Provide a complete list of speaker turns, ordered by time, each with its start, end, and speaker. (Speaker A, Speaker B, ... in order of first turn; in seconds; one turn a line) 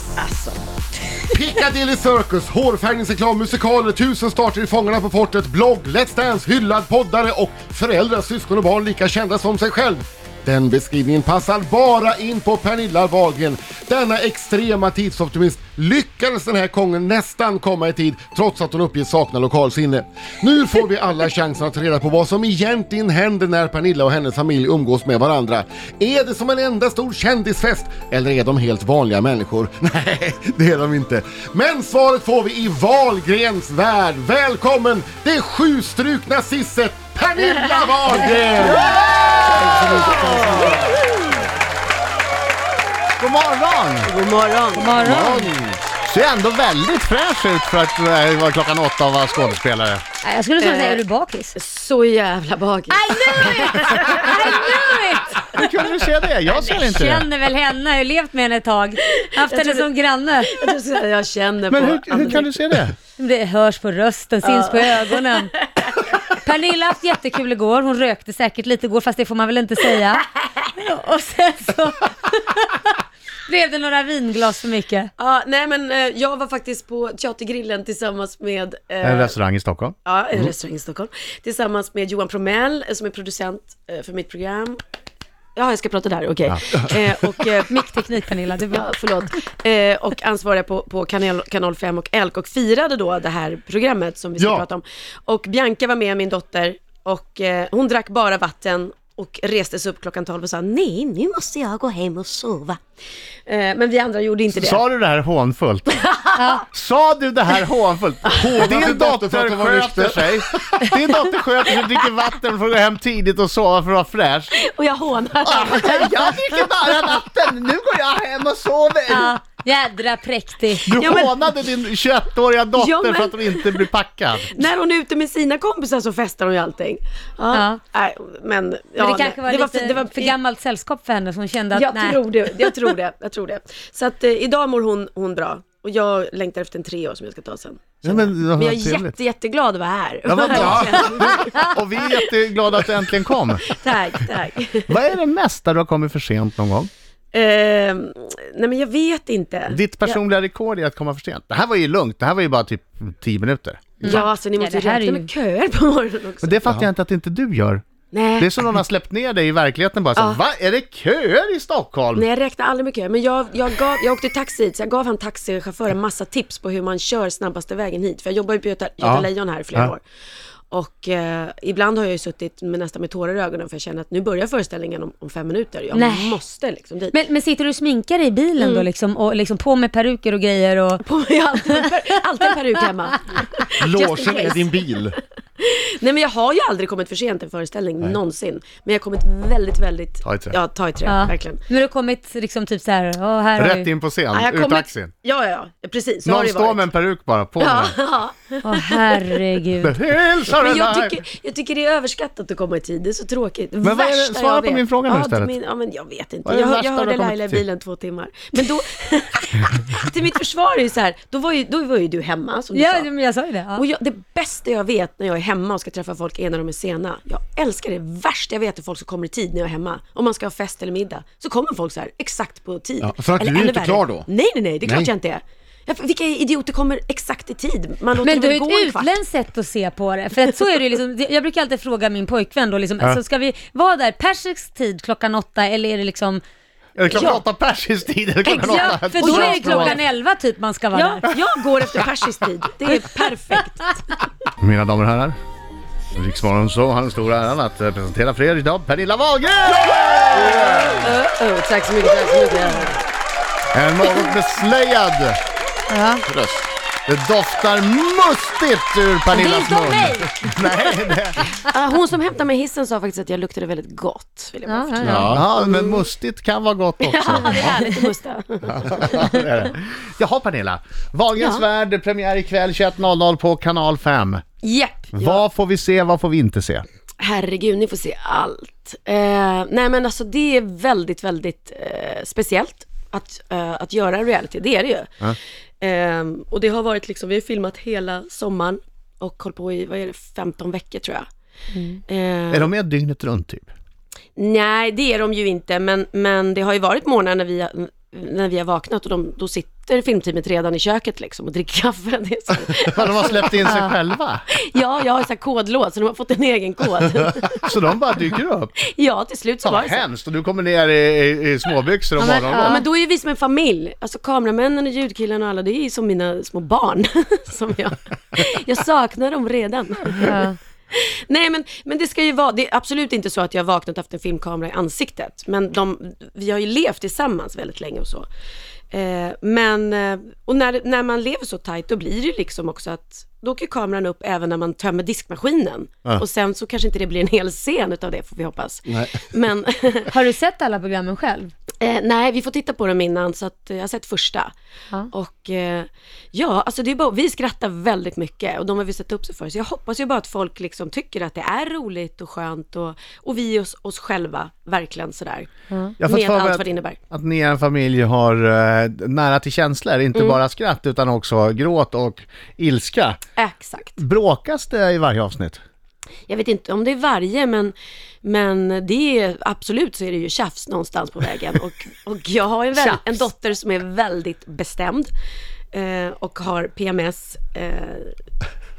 Speaker A: 0.2-0.6
Speaker B: 1.3-38.9
Speaker A: 37.4-41.3
Speaker C: 37.7-38.6
Speaker D: 38.6-41.0
Speaker D: 43.2-44.1
Speaker A: 44.1-45.0
Speaker C: 44.8-45.5
Speaker D: 44.8-50.0
Speaker C: 50.2-51.5
Speaker A: 50.6-51.0
Speaker A: 51.5-54.8
Speaker C: 52.9-55.5
Speaker D: 55.5-57.3
Speaker C: 56.6-60.6
Speaker A: 59.4-59.9
Speaker A: 60.5-62.5
Speaker D: 61.7-63.0
Speaker C: 63.2-65.5
Speaker A: 64.4-65.9
Speaker C: 66.1-73.0
Speaker C: 73.5-75.1
Speaker A: 75.2-79.4
Speaker D: 79.0-80.0
Speaker A: 80.0-84.8
Speaker A: 85.6-87.8
Speaker C: 87.7-88.9
Speaker A: 88.7-102.8
Speaker B: 94.4-94.7
Speaker A: 103.5-104.8
Speaker D: 104.5-106.1
Speaker A: 106.0-106.4
Speaker C: 106.3-106.7
Speaker D: 106.7-114.5
Speaker B: 108.3-110.9
Speaker A: 114.6-117.2
Speaker D: 115.4-119.3
Speaker C: 119.1-121.0
Speaker D: 120.9-124.5
Speaker A: 120.9-121.5
Speaker A: 122.8-123.9
Speaker A: 124.5-130.3
Speaker C: 127.5-127.8
Speaker C: 129.0-132.7
Speaker A: 131.7-145.0
Speaker D: 138.0-139.2
Speaker D: 140.3-143.8
Speaker D: 144.9-146.9
Speaker A: 147.3-150.2
Speaker D: 149.7-154.2
Speaker C: 154.0-155.3
Speaker A: 154.0-156.8
Speaker D: 156.4-157.8
Speaker A: 158.1-158.5
Speaker D: 158.4-162.3
Speaker A: 160.2-160.4
Speaker A: 162.1-170.0
Speaker D: 169.0-169.9
Speaker A: 170.7-177.2
Speaker C: 175.9-176.4
Speaker C: 177.1-181.1
Speaker A: 178.6-178.9
Speaker A: 181.0-184.8
Speaker B: 183.8-185.2
Speaker A: 185.6-191.6
Speaker D: 190.2-190.6
Speaker C: 191.1-193.9
Speaker D: 193.6-195.1
Speaker A: 194.3-196.9
Speaker D: 196.2-198.0
Speaker A: 197.6-199.4
Speaker C: 198.7-199.9
Speaker D: 199.8-201.2
Speaker A: 200.5-213.1
Speaker D: 203.8-205.5
Speaker D: 206.4-207.6
Speaker C: 212.7-213.8
Speaker A: 213.8-229.2
Speaker B: 223.0-224.3
Speaker B: 224.8-225.1
Speaker C: 228.2-236.4
Speaker D: 237.0-240.0
Speaker A: 237.1-237.4
Speaker A: 238.4-240.0
Speaker C: 238.6-241.3
Speaker A: 240.9-244.0
Speaker D: 244.6-245.4
Speaker D: 246.2-251.1
Speaker A: 250.2-253.1
Speaker D: 253.7-255.4
Speaker C: 255.9-256.2
Speaker B: 256.3-256.7
Speaker D: 257.1-261.5
Speaker C: 259.4-260.2
Speaker A: 259.4-260.2
Speaker A: 261.6-266.1
Speaker C: 264.7-265.3
Speaker B: 265.0-265.5
Speaker D: 265.1-267.8
Speaker A: 267.0-269.4
Speaker C: 267.4-268.1
Speaker D: 268.7-274.4
Speaker A: 271.4-271.6
Speaker A: 274.6-275.4
Speaker D: 275.1-276.9
Speaker A: 277.2-285.1
Speaker A: 285.8-291.2
Speaker C: 291.7-292.0
Speaker A: 292.1-292.7
Speaker D: 292.5-293.7
Speaker A: 294.4-303.8
Speaker D: 302.9-304.4
Speaker C: 303.6-303.9
Speaker A: 304.7-307.7
Speaker D: 307.6-308.7
Speaker A: 308.9-310.1
Speaker D: 309.6-312.8
Speaker C: 312.2-312.8
Speaker A: 312.5-328.3
Speaker C: 320.2-320.6
Speaker A: 328.9-340.1
Speaker C: 340.1-341.5
Speaker A: 341.8-344.5
Speaker A: 345.1-355.5
Speaker D: 356.0-363.2
Speaker A: 356.0-357.0
Speaker A: 360.1-360.4
Speaker A: 363.4-364.0
Speaker D: 364.0-365.6
Speaker A: 366.3-375.1
Speaker A: 375.7-378.1